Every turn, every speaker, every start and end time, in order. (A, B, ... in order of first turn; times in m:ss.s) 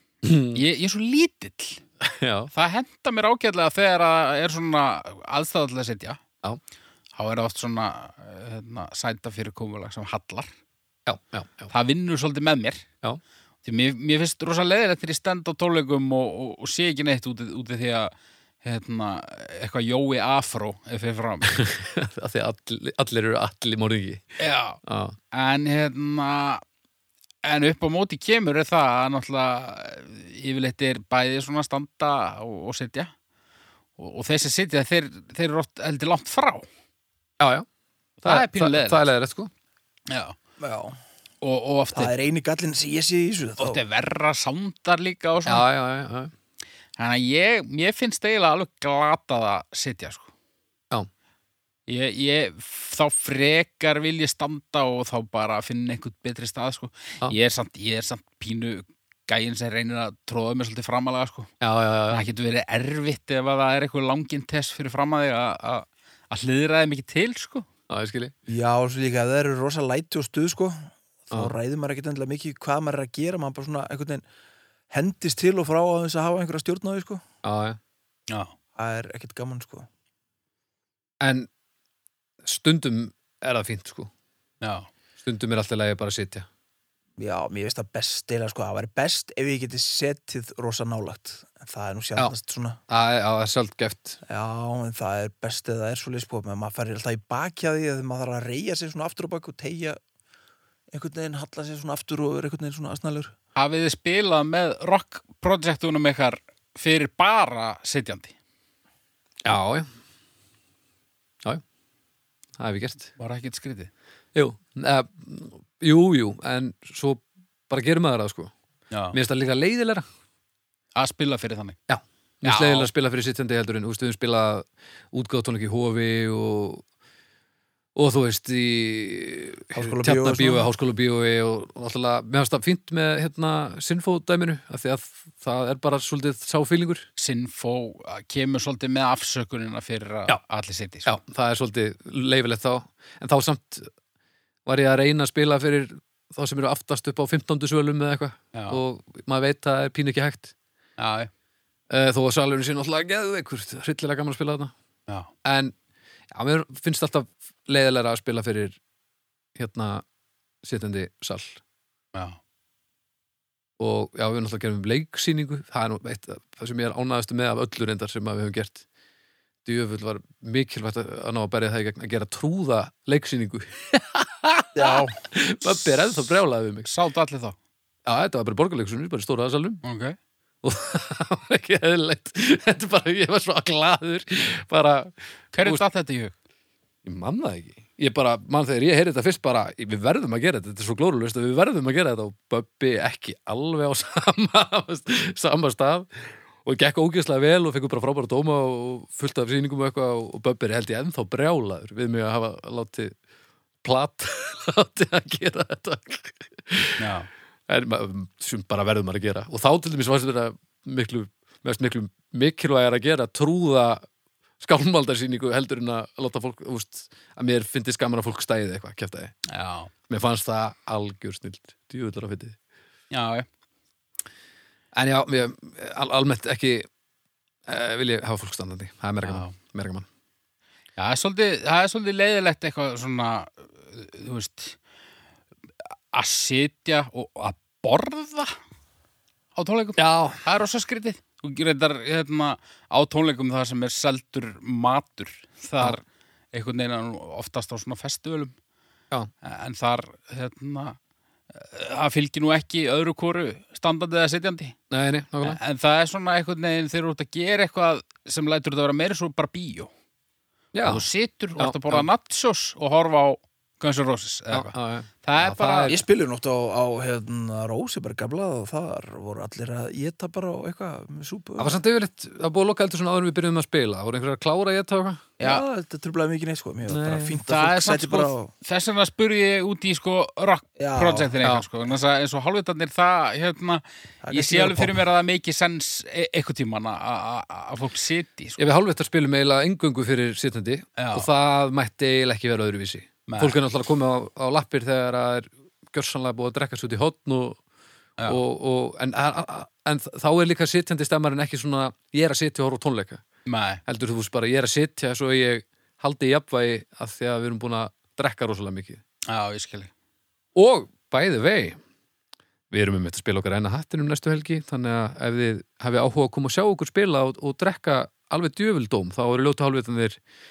0:00.2-0:00.6 A
0:00.5-0:01.8 B
0:02.0-0:02.5 A
0:02.5-0:06.2 B
0:07.2-0:10.5 B
0:11.0-0:11.7 A
0:11.7-0:12.9 B
0:13.6-0:21.5 B
0:21.5-0:24.2 A
0:24.4-0:24.8 B
0:24.8-0:25.2 A
0:25.3-0:26.6 B
0:27.4-0:33.1 B
0:34.0-0:36.7 B
0:37.4-0:37.7 A
0:38.2-0:39.1 B
0:38.2-0:39.5 A
0:40.1-0:40.4 B
0:40.6-0:41.0 C
0:41.4-0:42.1 B
0:41.9-0:43.8 C
0:43.6-0:45.7 B
0:45.4-0:46.3 A
0:47.0-0:50.3 B
0:51.9-1:01.5 B
1:01.6-1:02.2 A
1:02.1-1:07.7 B
1:07.9-1:08.3 A
1:08.5-1:14.2 C
1:14.9-1:17.2 C
1:17.4-1:17.8 A
1:18.8-1:19.9 C
1:21.2-1:21.5 A
1:22.4-1:24.1 A
1:24.6-1:24.9 B
1:25.2-1:26.5 A
1:27.2-1:32.8 C
1:32.9-1:34.2 A
1:34.3-1:40.0 C
1:40.9-1:43.3 C
1:43.5-1:48.3 B
1:49.4-1:49.9 A
1:52.6-1:53.1 A
1:53.2-1:53.9 B
1:54.3-1:58.5 A
1:58.9-1:59.2 B
1:59.1-2:00.0 A
2:01.0-2:01.8 B
2:01.9-2:06.8 A
2:02.4-2:02.9 B
2:08.0-2:17.0 A
2:09.7-2:10.7 C
2:17.2-2:21.1 B
2:21.0-2:23.9 A
2:24.6-2:30.5 A
2:28.5-2:28.8 B
2:31.0-2:31.3 B
2:31.9-2:34.7 A
2:35.4-2:35.7 A
2:36.3-2:38.8 A
2:39.6-2:40.0 A
2:40.6-2:41.6 A
2:43.8-2:48.8 A
2:49.6-2:56.9 A
2:54.8-2:55.1 C
2:54.8-2:55.1 B
2:56.8-2:57.6 B
2:58.0-2:59.8 A
2:59.8-3:00.2 B
3:00.6-3:05.8 A
3:05.5-3:06.3 B
3:07.0-3:23.1 A
3:23.8-3:27.0 A
3:27.0-3:27.3 B
3:27.7-3:34.0 A
3:34.6-3:39.3 A
3:39.5-3:39.9 B
3:40.1-3:42.6 A
3:43.1-3:43.4 B
3:44.9-3:46.9 A
3:47.7-3:50.0 A
3:49.2-3:49.5 B
3:51.0-3:54.8 B
3:56.1-3:58.6 B
3:59.6-4:06.0 B
4:00.0-4:00.4 A
4:06.5-4:08.5 B
4:09.4-4:11.0 B
4:11.5-4:14.8 B
4:14.9-4:15.6 A
4:15.4-4:19.9 B
4:20.7-4:21.0 A
4:20.8-4:25.9 B
4:21.6-4:22.1 A
4:24.5-4:26.0 A
4:25.9-4:31.8 C
4:31.6-4:35.3 A
4:35.4-4:35.6 B
4:35.4-4:38.5 C
4:36.9-4:37.4 A
4:37.4-4:48.6 B
4:40.8-4:41.3 C
4:44.2-4:45.0 C
4:48.6-4:57.6 A
4:51.0-4:51.3 B
4:53.3-4:53.6 B
4:58.3-5:03.2 A
5:03.5-5:03.8 B
5:03.8-5:09.0 A
5:09.3-5:09.9 B
5:10.5-5:11.8 A
5:12.7-5:20.2 A